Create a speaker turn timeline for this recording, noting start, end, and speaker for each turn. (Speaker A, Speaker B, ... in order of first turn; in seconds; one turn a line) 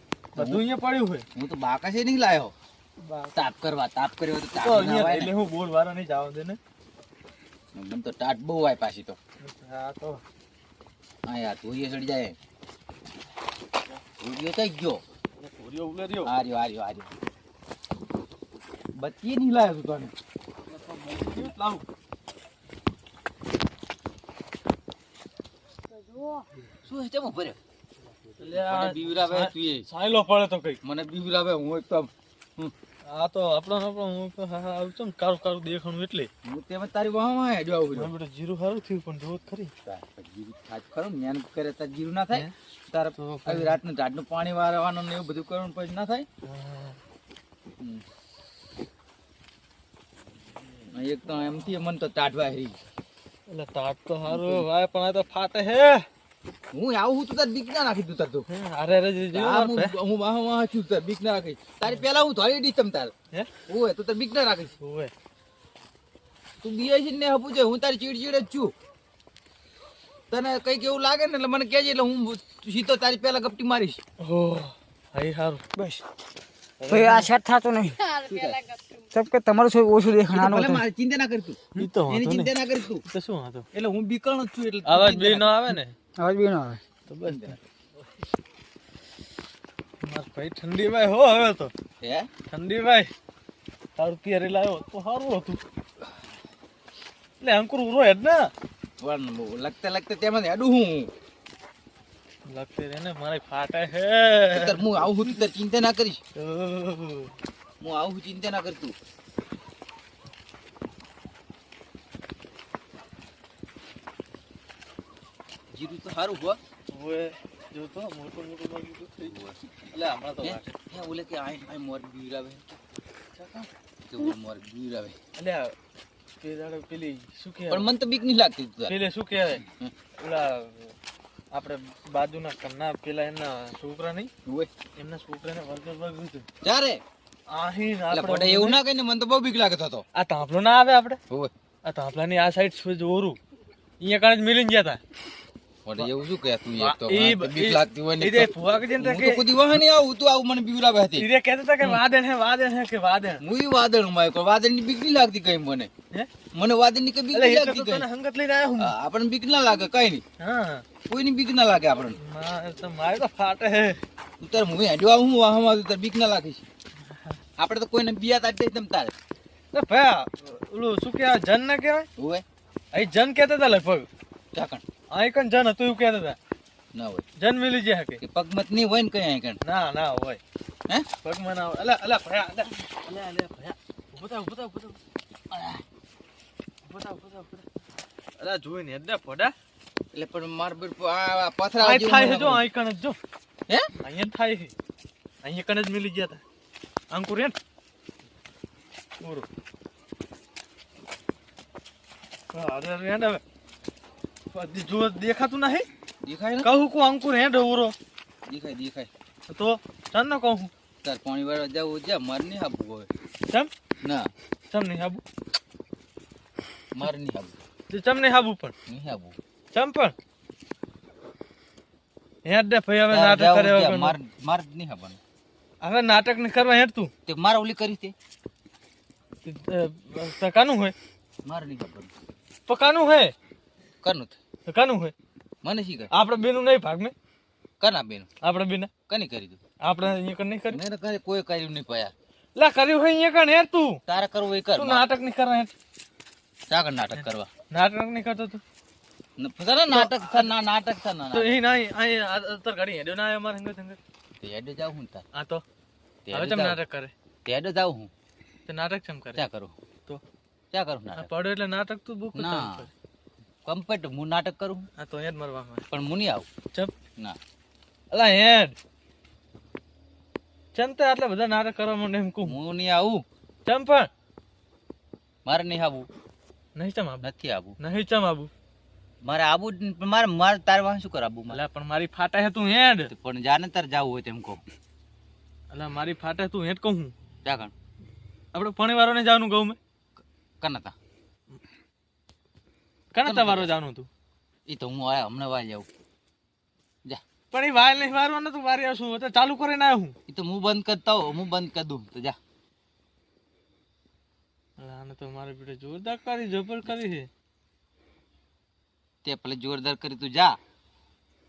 Speaker A: 0.3-0.6
Speaker B: 0.4-1.2
Speaker A: 1.3-2.5
Speaker B: 3.0-3.4
Speaker A: 3.3-5.3
Speaker B: 4.6-6.6
Speaker A: 7.7-9.2
Speaker B: 9.4-10.2
Speaker A: 11.2-12.4
Speaker A: 14.2-15.0
Speaker B: 15.4-16.3
Speaker A: 16.2-17.1
Speaker A: 18.9-20.1
Speaker B: 20.7-21.8
Speaker A: 26.8-27.6
Speaker B: 28.4-30.8
Speaker A: 28.6-29.9
Speaker A: 30.8-32.7
Speaker B: 33.0-36.3
Speaker A: 36.4-38.1
Speaker B: 37.9-39.7
Speaker A: 39.8-46.3
Speaker B: 43.1-43.8
Speaker B: 46.5-47.0
Speaker A: 50.9-52.8
Speaker B: 53.5-56.0
Speaker A: 54.3-54.6
Speaker A: 56.7-58.5
Speaker B: 58.5-59.9
Speaker A: 59.3-63.1
Speaker A: 63.7-64.7
Speaker B: 64.8-65.1
Speaker A: 66.6-68.7
Speaker A: 70.3-74.0
Speaker B: 74.2-75.7
Speaker A: 76.8-77.3
Speaker C: 76.9-78.1
Speaker A: 78.2-78.8
Speaker C: 79.1-80.8
Speaker A: 80.2-83.0
Speaker B: 81.8-82.5
Speaker B: 83.1-83.7
Speaker A: 83.7-85.7
Speaker B: 84.8-85.9
Speaker C: 86.2-86.8
Speaker B: 87.1-87.6
Speaker A: 87.2-87.6
Speaker B: 90.0-91.7
Speaker A: 92.0-92.3
Speaker B: 92.5-93.1
Speaker B: 94.0-95.6
Speaker B: 97.4-98.5
Speaker A: 99.0-101.1
Speaker B: 102.5-105.1
Speaker A: 104.5-106.2
Speaker B: 106.3-107.3
Speaker A: 107.8-108.9
Speaker A: 115.7-116.6
Speaker B: 116.9-119.3
Speaker A: 119.2-119.6
Speaker B: 119.9-120.7
Speaker A: 120.4-122.8
Speaker B: 123.4-123.7
Speaker A: 124.1-125.2
Speaker B: 125.4-125.7
Speaker B: 126.4-127.9
Speaker A: 127.7-129.0
Speaker B: 128.9-129.6
Speaker B: 130.2-130.9
Speaker B: 131.5-134.3
Speaker B: 135.0-136.4
Speaker A: 136.6-137.0
Speaker B: 137.5-138.8
Speaker A: 138.1-140.0
Speaker B: 140.2-141.2
Speaker B: 141.8-143.4
Speaker B: 144.0-145.0
Speaker A: 145.8-151.3
Speaker B: 146.8-149.5
Speaker B: 151.2-153.4
Speaker A: 153.4-155.9
Speaker A: 156.5-158.1
Speaker B: 157.3-158.9
Speaker A: 158.8-160.2
Speaker B: 160.4-160.8
Speaker A: 161.1-162.2
Speaker B: 162.2-164.0
Speaker A: 164.4-166.7
Speaker A: 167.6-169.1
Speaker B: 169.7-172.1
Speaker A: 172.2-172.4
Speaker B: 172.9-174.1
Speaker A: 174.5-174.8
Speaker B: 175.1-176.4
Speaker A: 176.9-177.2
Speaker B: 177.4-178.2
Speaker A: 178.2-179.6
Speaker B: 179.6-180.4
Speaker B: 181.2-185.0
Speaker A: 185.5-185.8
Speaker B: 186.8-187.6
Speaker B: 188.4-189.5
Speaker A: 190.1-192.6
Speaker B: 191.8-193.2
Speaker B: 194.0-194.7
Speaker B: 195.4-196.4
Speaker B: 197.1-197.5
Speaker B: 199.2-199.4
Speaker B: 202.5-203.4
Speaker B: 204.5-205.9
Speaker A: 206.2-206.7
Speaker B: 206.6-207.9
Speaker A: 208.5-209.1
Speaker B: 209.5-210.7
Speaker A: 211.0-213.1
Speaker A: 214.0-214.3
Speaker B: 214.7-215.2
Speaker A: 216.9-217.6
Speaker B: 217.9-218.7
Speaker A: 218.9-219.4
Speaker B: 219.7-220.1
Speaker B: 222.4-224.1
Speaker A: 223.1-225.2
Speaker B: 225.8-227.1
Speaker A: 227.2-228.1
Speaker B: 229.4-230.9
Speaker A: 231.4-232.1
Speaker B: 232.7-233.3
Speaker A: 234.0-234.4
Speaker B: 234.7-235.1
Speaker A: 235.6-236.1
Speaker B: 236.1-237.1
Speaker A: 237.8-238.3
Speaker B: 238.4-238.9
Speaker A: 239.1-239.6
Speaker B: 239.8-240.8
Speaker A: 240.7-242.1
Speaker B: 242.6-244.0
Speaker A: 244.1-245.1
Speaker B: 244.7-245.7
Speaker A: 246.7-247.5
Speaker B: 247.2-248.6
Speaker A: 249.4-251.6
Speaker B: 249.9-250.5
Speaker B: 251.3-254.0
Speaker A: 254.4-255.2
Speaker B: 255.3-255.6
Speaker A: 256.3-256.8
Speaker B: 256.3-257.1
Speaker A: 257.4-258.1
Speaker B: 258.7-259.4
Speaker A: 259.4-259.8
Speaker A: 260.7-261.3
Speaker B: 261.1-262.9
Speaker A: 262.3-262.9
Speaker A: 263.6-264.9
Speaker B: 265.0-265.9
Speaker A: 265.9-266.5
Speaker B: 268.1-268.8
Speaker B: 270.8-272.6
Speaker A: 272.4-273.2
Speaker B: 273.7-274.1
Speaker A: 275.4-276.1
Speaker B: 276.8-277.2
Speaker A: 277.2-277.8
Speaker B: 277.8-278.5
Speaker A: 279.2-281.6
Speaker B: 281.5-283.1
Speaker A: 283.1-284.6
Speaker B: 285.7-287.1
Speaker A: 287.4-287.7
Speaker B: 288.5-289.8
Speaker A: 290.2-290.9
Speaker B: 293.1-294.1
Speaker A: 293.2-293.7
Speaker A: 294.7-295.9
Speaker B: 297.5-300.1
Speaker A: 300.3-302.4
Speaker B: 304.8-307.3
Speaker A: 309.2-310.6